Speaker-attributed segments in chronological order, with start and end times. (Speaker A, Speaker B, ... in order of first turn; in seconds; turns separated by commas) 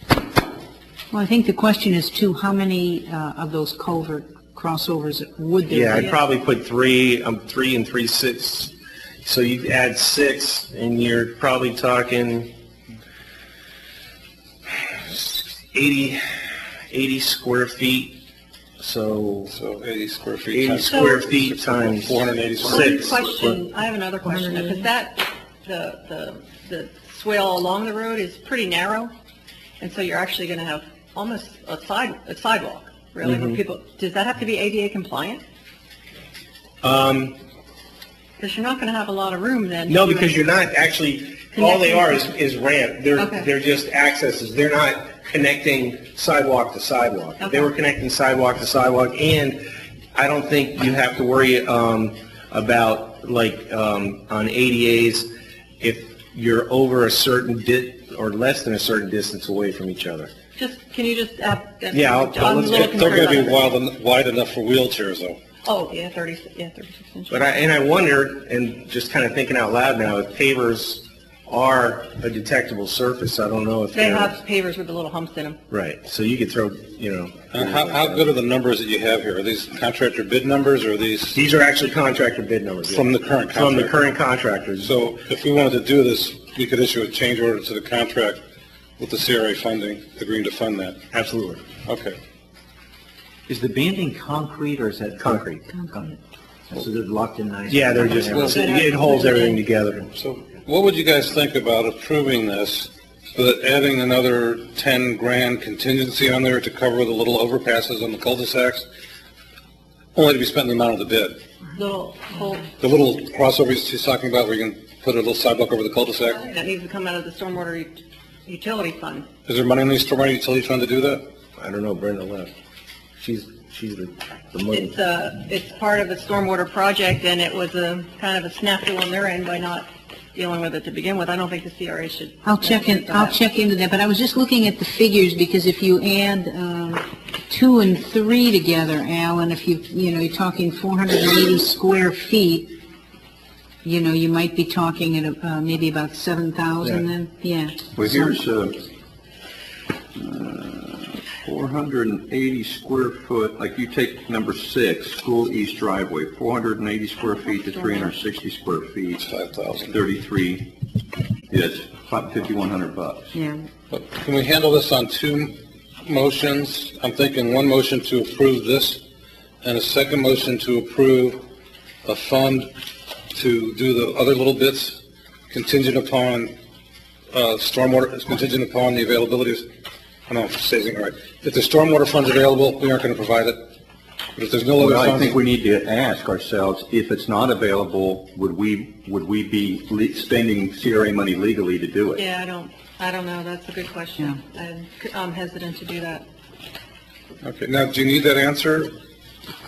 Speaker A: 1.1-6.1, Speaker B: 5.7-8.7, Speaker B: 9.2-12.5, Speaker B: 15.0-16.2, Speaker B: 16.9-18.2, Speaker B: 18.8-19.5, Speaker C: 19.5-23.0, Speaker B: 20.5-23.6, Speaker D: 20.9-21.2, Speaker D: 22.7-29.1, Speaker A: 24.2-24.9, Speaker D: 29.8-35.4, Speaker B: 33.2-33.6, Speaker B: 36.8-37.4, Speaker D: 38.4-40.4, Speaker B: 39.9-49.6, Speaker D: 41.5-42.3, Speaker D: 43.2-43.5, Speaker D: 47.4-47.7, Speaker B: 50.1-55.3, Speaker B: 55.8-60.3, Speaker D: 60.6-63.6, Speaker B: 61.9-63.6, Speaker C: 62.6-65.4, Speaker D: 65.6-67.5, Speaker B: 67.3-74.4, Speaker D: 73.9-75.6, Speaker B: 75.7-78.3, Speaker C: 77.5-81.4, Speaker B: 81.3-84.9, Speaker C: 82.9-84.0, Speaker C: 84.8-88.4, Speaker C: 89.0-91.0, Speaker B: 91.1-91.6, Speaker C: 91.8-92.2, Speaker E: 93.5-96.2, Speaker B: 95.2-95.5, Speaker E: 96.7-99.1, Speaker B: 97.7-100.1, Speaker C: 98.2-98.7, Speaker D: 98.5-99.6, Speaker C: 100.2-108.8, Speaker C: 110.1-111.4, Speaker D: 111.7-112.7, Speaker C: 112.8-116.4, Speaker D: 116.3-117.9, Speaker D: 118.5-119.2, Speaker C: 119.5-121.2, Speaker B: 121.6-122.5, Speaker B: 123.2-124.9, Speaker D: 124.7-133.4, Speaker A: 132.4-142.7, Speaker A: 143.8-148.4, Speaker F: 147.9-148.8, Speaker F: 150.1-159.2, Speaker D: 157.3-158.1, Speaker C: 159.2-159.9, Speaker F: 159.9-160.7, Speaker F: 161.5-163.3, Speaker A: 163.3-163.7, Speaker C: 163.9-169.0, Speaker C: 169.6-171.4, Speaker C: 172.0-172.7, Speaker C: 173.3-175.0, Speaker C: 175.5-176.5, Speaker C: 177.3-179.6, Speaker C: 180.3-183.6, Speaker C: 184.3-185.4, Speaker F: 184.8-192.2, Speaker D: 192.2-196.2, Speaker C: 197.4-198.9